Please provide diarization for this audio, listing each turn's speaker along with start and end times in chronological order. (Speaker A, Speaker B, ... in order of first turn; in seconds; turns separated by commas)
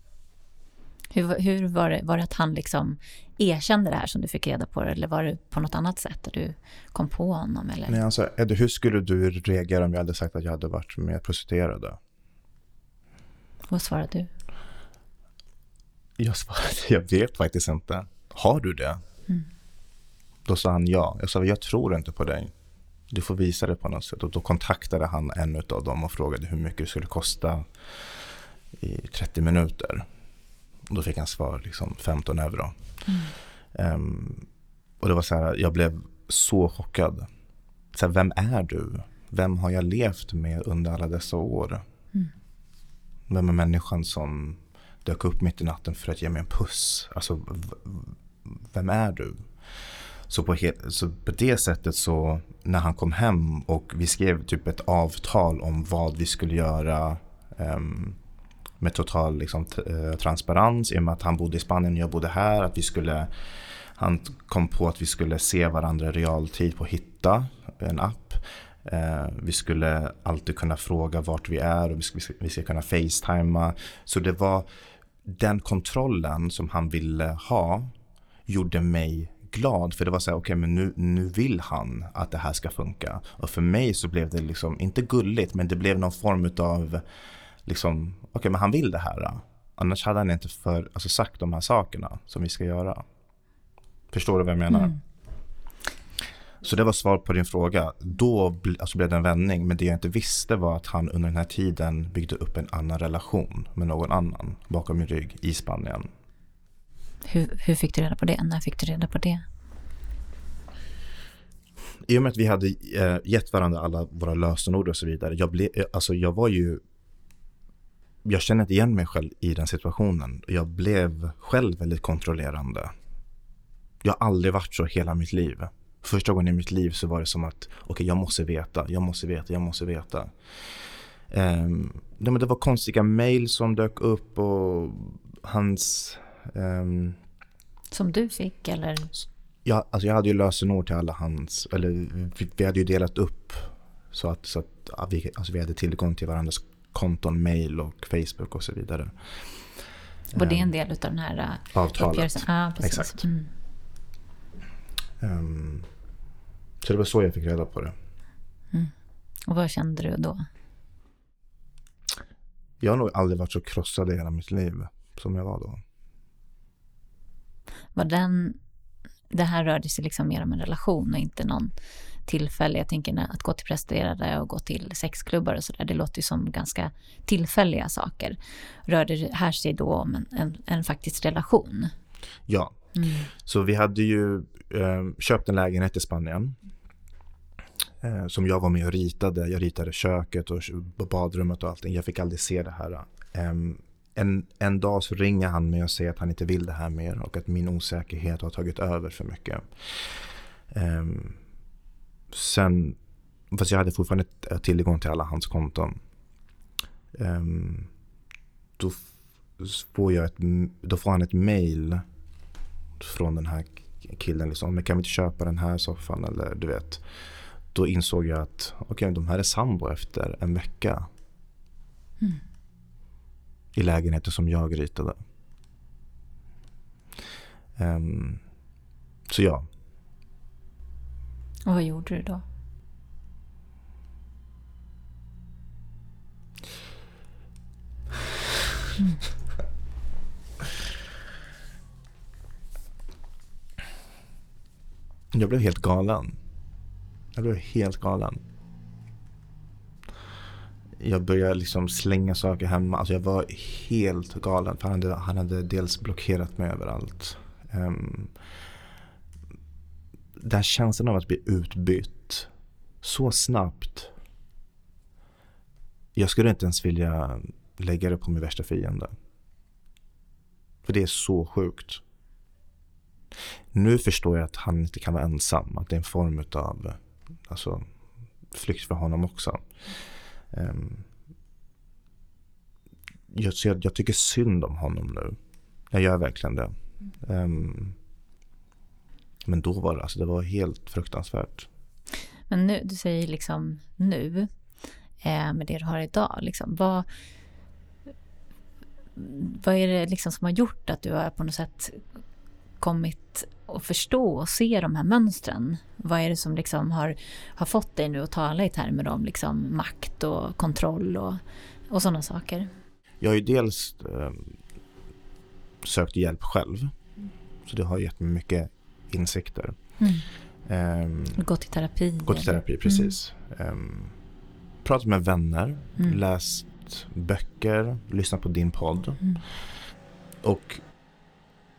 Speaker A: 1.1-8.0, Speaker B: 7.9-12.0, Speaker A: 13.7-14.3, Speaker B: 16.2-19.0, Speaker B: 20.5-22.5, Speaker B: 23.1-30.1, Speaker B: 30.9-32.8, Speaker A: 33.1-33.3, Speaker B: 33.7-34.5, Speaker B: 35.0-37.3, Speaker B: 37.9-41.8, Speaker B: 43.3-49.5, Speaker B: 50.3-58.2, Speaker B: 58.8-63.3, Speaker B: 64.0-74.7, Speaker B: 75.2-77.9, Speaker B: 78.5-87.0, Speaker B: 87.7-93.0, Speaker B: 94.1-95.0, Speaker A: 94.7-95.0, Speaker B: 96.6-106.1, Speaker A: 107.2-109.5, Speaker B: 112.1-116.8, Speaker B: 118.2-122.9, Speaker B: 124.0-130.3, Speaker B: 131.3-137.2, Speaker A: 137.9-139.1, Speaker B: 139.7-149.4, Speaker B: 150.3-150.7, Speaker A: 150.3-153.5, Speaker B: 151.7-153.3, Speaker B: 155.2-155.9, Speaker B: 156.8-158.0, Speaker A: 159.5-160.5, Speaker B: 162.8-165.8, Speaker A: 167.9-168.6, Speaker A: 169.3-171.7, Speaker A: 172.3-181.9, Speaker B: 182.5-186.6, Speaker A: 182.9-183.3, Speaker B: 188.0-201.4, Speaker B: 202.3-203.0, Speaker B: 203.5-206.0, Speaker B: 207.1-207.9, Speaker B: 208.8-212.1, Speaker B: 213.0-217.0, Speaker B: 217.7-221.1, Speaker B: 223.8-225.2, Speaker B: 227.8-228.4, Speaker B: 229.3-229.7, Speaker A: 231.7-232.4, Speaker B: 245.3-246.4, Speaker B: 247.3-248.4, Speaker B: 251.0-258.3, Speaker B: 260.4-262.5, Speaker B: 263.0-264.1, Speaker B: 266.2-269.1, Speaker B: 270.9-272.0, Speaker B: 273.7-277.9, Speaker B: 278.5-279.6, Speaker B: 280.5-281.1, Speaker B: 283.3-285.4, Speaker B: 285.9-288.0, Speaker B: 289.5-291.7, Speaker A: 292.5-294.5, Speaker A: 295.2-297.1, Speaker A: 299.2-302.0, Speaker A: 302.8-312.7, Speaker B: 313.2-314.6, Speaker B: 315.8-316.9, Speaker B: 317.7-319.8, Speaker A: 320.0-320.3, Speaker B: 320.6-321.4, Speaker A: 321.4-323.1, Speaker B: 322.2-324.2, Speaker B: 324.8-329.2, Speaker B: 330.4-330.8